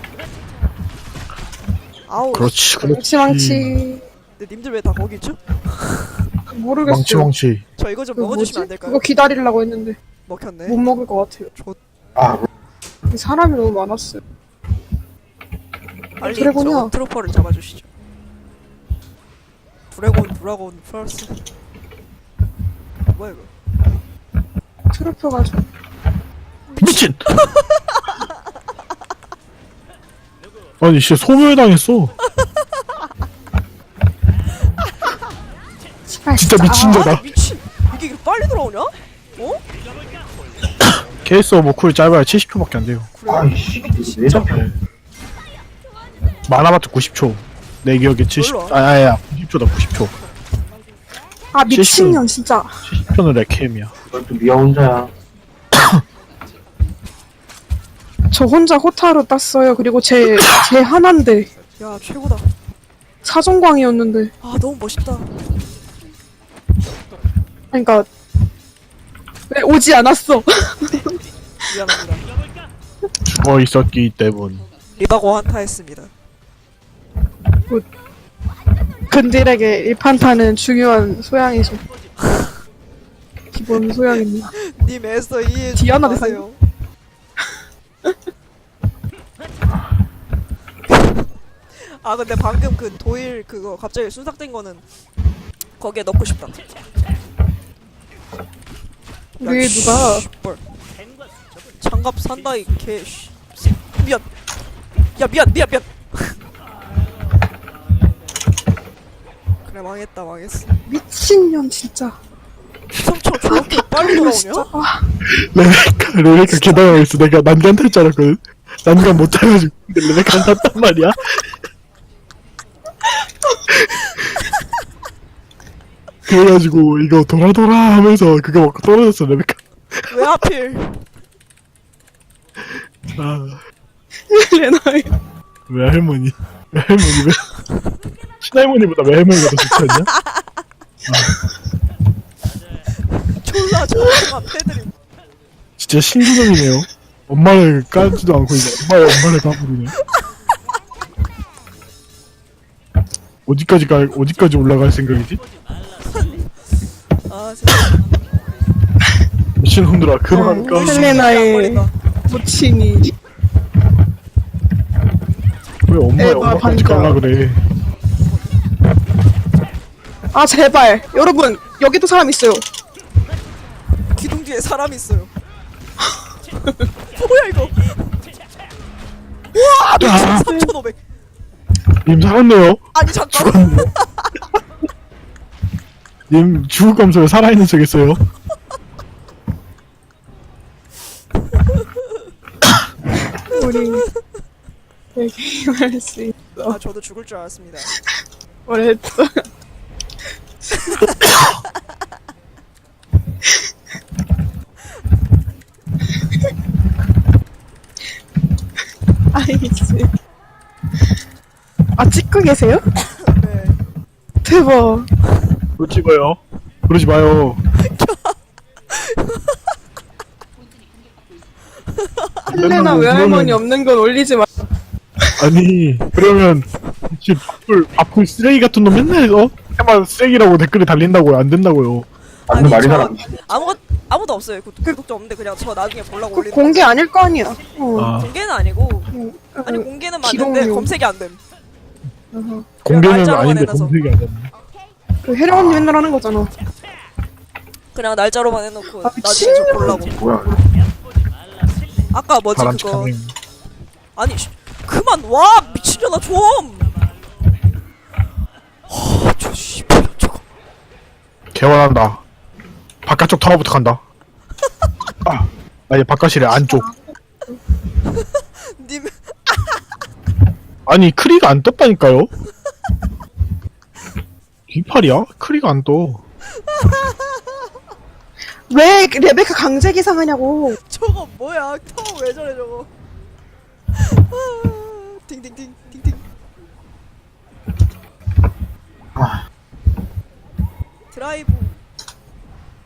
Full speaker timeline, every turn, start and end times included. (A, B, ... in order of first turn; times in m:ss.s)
0:02.1-0:02.6 A
0:02.3-0:03.8 B
0:02.8-0:04.0 C
0:04.4-0:06.2 A
0:06.5-0:07.3 C
0:06.8-0:07.6 B
0:07.8-0:09.0 A
0:08.1-0:10.0 C
0:10.2-0:10.8 A
0:10.7-0:11.5 C
0:12.2-0:12.4 D
0:13.1-0:14.2 C
0:16.2-0:17.9 A
0:16.2-0:16.9 C
0:19.9-0:21.4 A
0:23.0-0:23.5 A
0:24.9-0:25.6 C
0:26.7-0:28.0 A
0:26.8-0:27.2 B
0:30.8-0:32.1 B
0:36.1-0:37.1 C
0:36.3-0:37.2 B
0:36.8-0:39.6 A
0:40.8-0:43.1 B
0:43.1-0:44.4 A
0:43.2-0:44.7 D
0:44.3-0:44.7 B
0:46.5-0:50.1 B
0:48.3-0:48.8 A
0:51.5-0:52.7 C
0:51.7-0:52.2 B
0:52.8-0:53.9 B
0:54.1-0:55.1 D
0:55.7-0:56.0 B
0:58.3-1:01.5 C
1:01.8-1:02.5 A
1:03.2-1:04.3 C
1:04.4-1:05.4 A
1:07.7-1:08.1 C
1:09.5-1:11.2 C
1:11.7-1:12.3 A
1:13.2-1:14.6 B
1:15.0-1:16.1 A
1:19.1-1:21.8 C
1:22.2-1:22.5 A
1:23.5-1:24.5 C
1:24.6-1:26.6 A
1:25.7-1:26.4 C
1:31.7-1:34.8 A
1:35.8-1:36.6 A
1:39.4-1:40.6 A
1:39.4-1:40.2 C
1:41.8-1:44.3 A
1:45.2-1:46.4 A
1:49.6-1:50.7 A
1:50.9-1:52.2 C
1:53.0-1:54.7 A
1:53.4-1:55.1 C
1:55.2-2:01.5 B
2:03.7-2:04.4 B
2:06.3-2:10.1 B
2:10.1-2:11.0 A
2:12.6-2:13.6 B
2:14.3-2:15.1 C
2:15.7-2:17.4 B
2:18.4-2:20.1 B
2:21.1-2:21.3 B
2:23.3-2:24.9 A
2:25.8-2:29.9 B
2:33.4-2:35.4 B
2:36.0-2:36.7 A
2:37.2-2:38.0 A
2:39.6-2:41.3 B
2:40.3-2:43.1 C
2:40.6-2:41.9 A
2:45.9-2:47.6 B
2:46.2-2:47.2 C
2:50.3-2:52.6 C
2:54.1-2:55.3 A
2:57.1-2:58.0 A
2:59.5-3:01.0 A
3:00.0-3:00.5 B
3:02.0-3:03.9 B
3:02.9-3:04.3 A
3:06.3-3:08.2 B
3:13.5-3:14.0 C
3:13.7-3:14.0 A
3:15.1-3:16.8 C
3:16.7-3:17.9 A
3:18.7-3:19.4 C
3:20.8-3:21.6 A
3:29.3-3:30.1 C
3:32.0-3:32.8 C
3:33.2-3:33.8 A
3:34.4-3:35.1 C
3:35.8-3:37.6 B
3:37.8-3:38.4 A
3:38.9-3:39.5 A
3:42.5-3:43.6 B
3:42.5-3:44.5 C
3:45.4-3:52.1 B
3:52.5-3:53.3 D
3:52.5-3:56.9 A
3:56.3-3:58.1 C
3:58.0-3:58.3 B
3:58.2-3:59.1 A
3:59.1-4:00.9 C
3:59.6-4:01.4 A
4:02.3-4:02.7 C
4:02.8-4:04.5 B
4:02.8-4:04.0 A
4:05.2-4:06.5 C
4:05.5-4:05.9 B
4:07.9-4:10.2 A
4:09.0-4:10.0 C
4:09.7-4:10.6 D
4:12.1-4:13.1 A
4:12.5-4:13.3 B
4:14.2-4:17.0 A
4:18.9-4:20.4 A
4:21.5-4:22.2 B
4:23.0-4:24.0 B
4:25.2-4:26.9 B
4:26.5-4:27.6 C
4:28.0-4:29.8 A
4:30.8-4:32.3 B
4:34.7-4:36.2 B
4:36.8-4:37.1 A
4:38.7-4:40.8 C
4:40.8-4:42.9 A
4:43.9-4:46.2 A
4:49.2-4:49.4 D
4:51.1-4:51.8 A